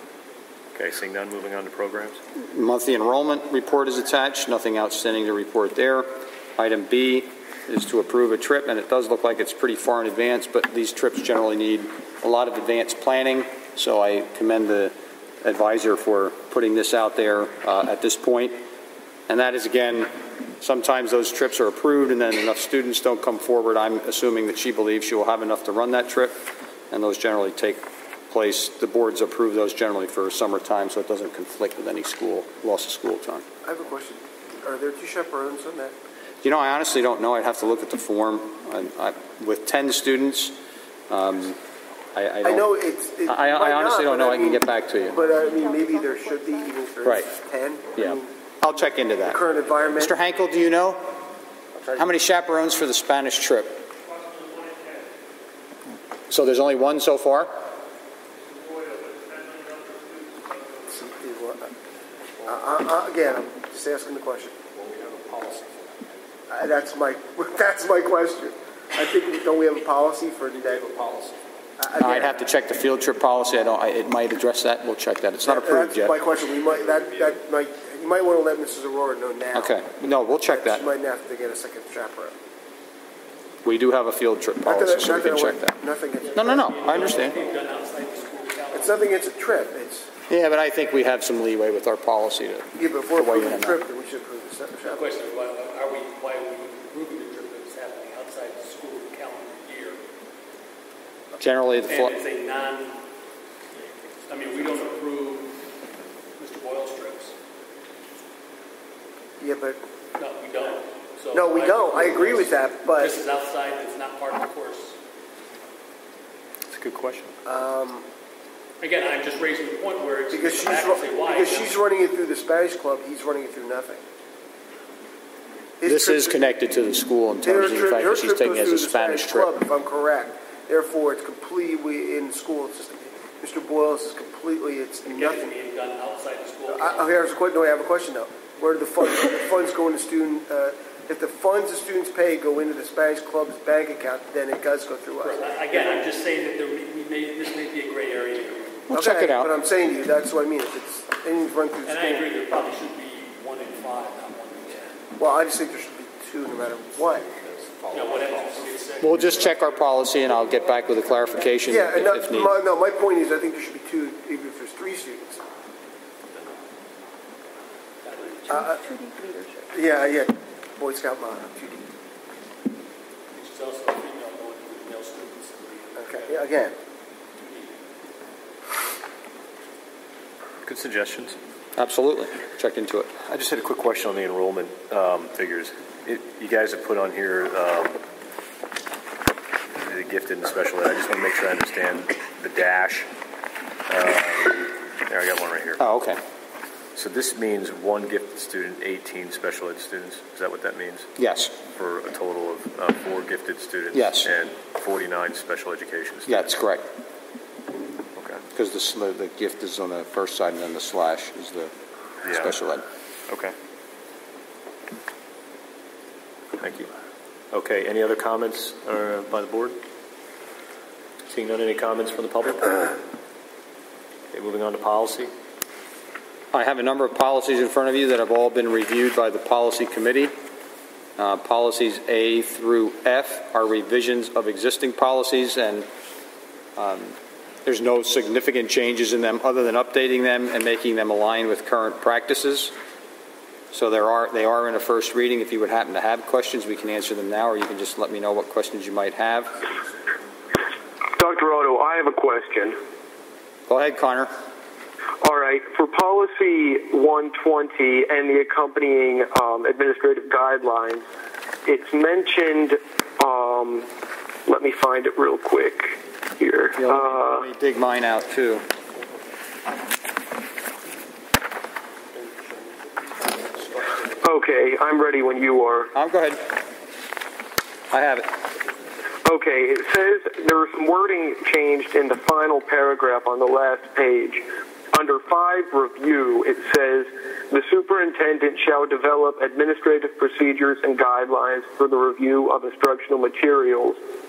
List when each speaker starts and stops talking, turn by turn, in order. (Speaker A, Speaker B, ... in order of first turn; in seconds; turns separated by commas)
Speaker A: 0.7-2.2, Speaker B: 2.4-18.6, Speaker B: 19.3-26.3, Speaker B: 26.9-33.4, Speaker C: 33.6-35.9, Speaker B: 36.4-40.5, Speaker B: 41.1-41.6, Speaker B: 42.1-42.7, Speaker C: 42.4-48.3, Speaker B: 43.2-45.2, Speaker D: 45.2-46.6, Speaker B: 47.0-47.3, Speaker B: 48.0-49.4, Speaker C: 49.2-50.2, Speaker B: 49.9-51.1, Speaker C: 51.8-52.0, Speaker B: 51.9-53.8, Speaker B: 56.3-57.5, Speaker C: 60.8-61.7, Speaker C: 62.4-64.6, Speaker A: 64.8-65.9, Speaker C: 66.5-71.2, Speaker C: 71.8-72.4, Speaker B: 72.0-76.2, Speaker C: 75.4-79.8, Speaker B: 79.5-80.8, Speaker C: 80.5-82.3, Speaker B: 83.6-85.8, Speaker C: 84.6-87.4, Speaker E: 86.2-89.0, Speaker B: 86.3-87.3, Speaker C: 88.7-90.1, Speaker B: 90.3-93.8, Speaker C: 92.8-95.1, Speaker E: 94.8-100.0, Speaker B: 101.4-102.1, Speaker E: 101.9-103.0, Speaker E: 104.2-105.5, Speaker E: 106.4-107.3, Speaker C: 109.4-109.8, Speaker E: 110.2-115.0, Speaker C: 111.3-113.2, Speaker A: 116.7-117.3, Speaker C: 117.4-118.0, Speaker E: 118.8-121.8, Speaker C: 120.3-124.0, Speaker C: 125.8-126.4, Speaker B: 125.8-129.5, Speaker C: 127.4-135.5, Speaker E: 135.0-137.2, Speaker C: 136.7-145.9, Speaker E: 145.2-148.8, Speaker B: 148.9-149.5, Speaker C: 148.9-152.3, Speaker E: 151.8-154.9, Speaker C: 155.2-157.3, Speaker A: 157.4-158.7, Speaker E: 157.9-159.7, Speaker B: 159.0-162.5, Speaker C: 161.6-165.4, Speaker E: 168.1-168.3, Speaker C: 168.5-168.8, Speaker D: 168.5-169.5, Speaker C: 169.7-171.9, Speaker E: 173.3-176.5, Speaker C: 176.0-176.7, Speaker E: 177.4-177.8, Speaker A: 180.6-181.4, Speaker B: 181.8-183.1, Speaker A: 183.3-188.0, Speaker A: 189.8-193.1, Speaker A: 193.9-195.8, Speaker B: 195.8-196.2, Speaker A: 196.9-201.1, Speaker B: 201.2-201.5, Speaker A: 201.7-206.5, Speaker B: 203.9-204.3, Speaker B: 206.3-206.8, Speaker A: 208.2-208.4, Speaker B: 208.5-211.7, Speaker A: 212.2-212.5, Speaker B: 212.2-212.8, Speaker A: 213.3-213.5, Speaker A: 216.6-216.9, Speaker A: 217.5-219.8, Speaker A: 221.3-222.9, Speaker A: 224.3-225.3, Speaker B: 226.5-230.3, Speaker B: 231.2-235.9, Speaker B: 236.8-242.7, Speaker B: 243.7-249.6, Speaker F: 251.2-252.8, Speaker B: 253.7-254.3, Speaker F: 255.2-261.1, Speaker F: 261.6-263.9, Speaker F: 264.5-267.4, Speaker B: 266.8-268.6, Speaker F: 274.2-275.9, Speaker B: 275.9-276.4, Speaker B: 277.9-278.3, Speaker F: 279.2-294.0